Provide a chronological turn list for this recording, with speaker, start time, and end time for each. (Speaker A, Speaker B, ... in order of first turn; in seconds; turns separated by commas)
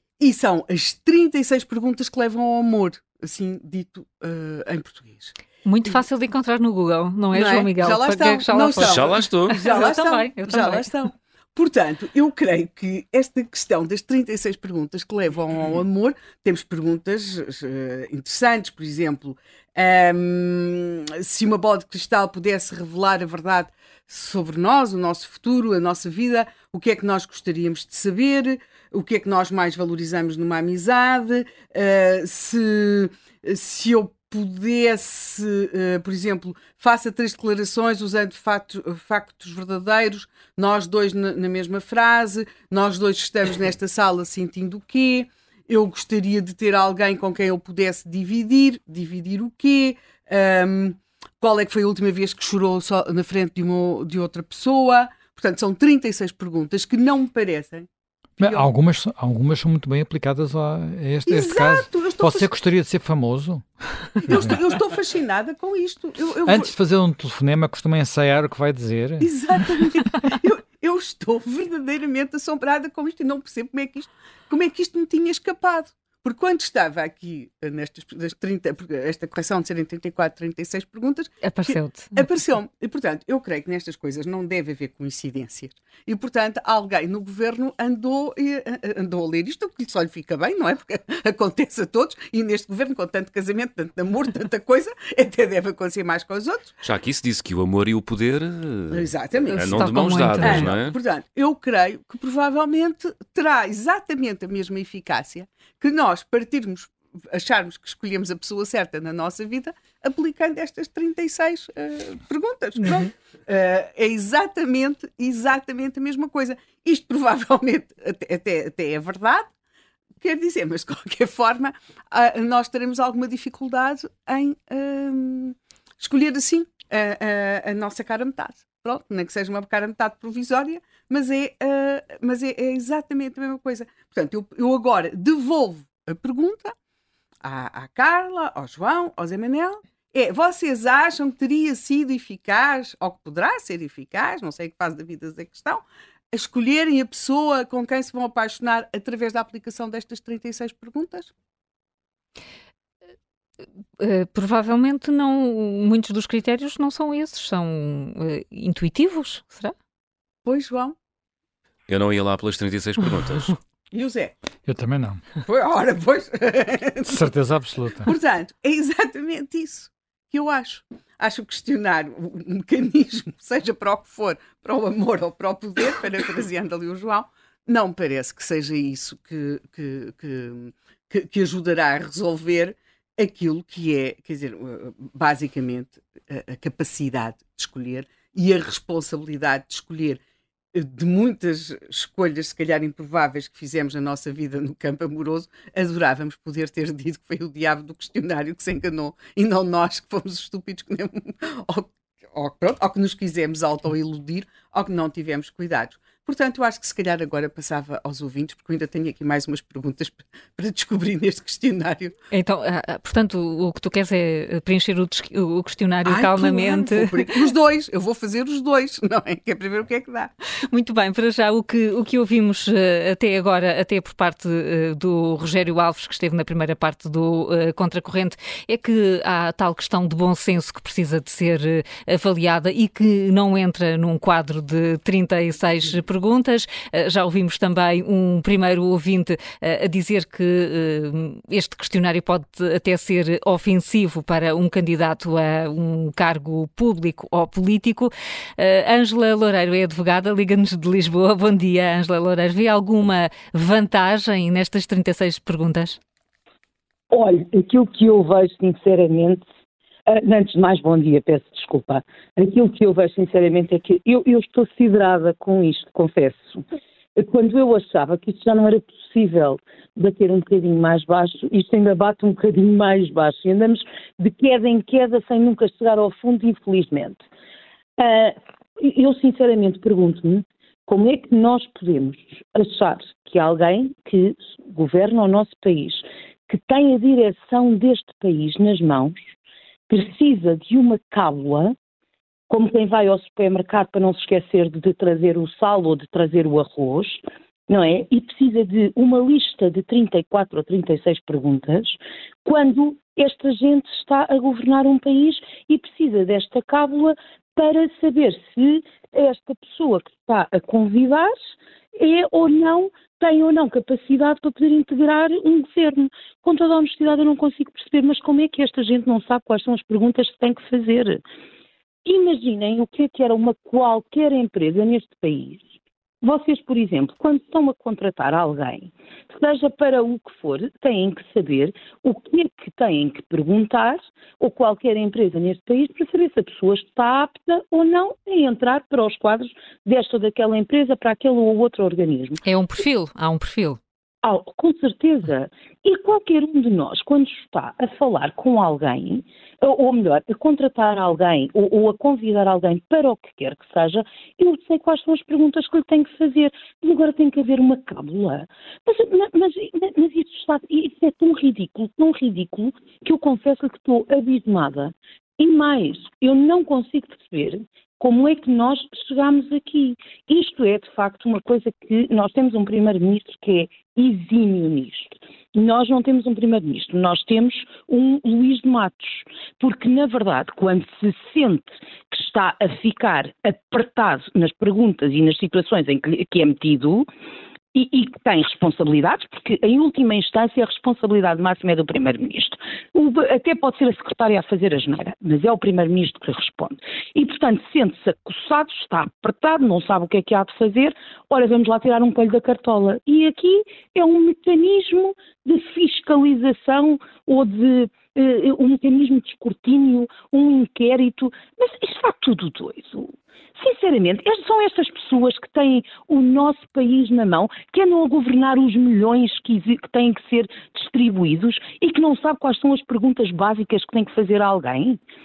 Speaker A: 0.2-5.3, Speaker B: 5.6-10.9, Speaker A: 7.3-57.9, Speaker C: 8.8-9.6, Speaker D: 58.4-64.5, Speaker A: 58.4-58.7, Speaker A: 61.2-62.5, Speaker A: 64.2-66.7, Speaker D: 66.5-69.3, Speaker A: 69.2-96.7, Speaker B: 81.4-82.2, Speaker C: 96.8-100.9, Speaker A: 98.9-119.5, Speaker B: 99.6-100.7, Speaker A: 120.2-136.7, Speaker A: 137.4-151.3, Speaker B: 154.0-159.7, Speaker A: 160.4-160.9, Speaker C: 161.9-163.5, Speaker A: 163.9-164.3, Speaker D: 164.7-165.2, Speaker A: 165.4-167.3, Speaker D: 167.1-168.1, Speaker A: 168.0-190.2, Speaker A: 190.7-212.1, Speaker B: 212.3-217.2, Speaker A: 216.0-220.3, Speaker B: 220.7-256.0, Speaker E: 257.1-259.5, Speaker E: 260.1-266.6, Speaker E: 267.1-277.2, Speaker E: 278.0-289.3, Speaker E: 289.9-291.8, Speaker E: 292.5-311.4, Speaker E: 311.9-321.2, Speaker E: 322.0-325.7, Speaker E: 326.2-342.4, Speaker B: 342.4-343.8, Speaker E: 344.2-387.1, Speaker E: 387.7-425.0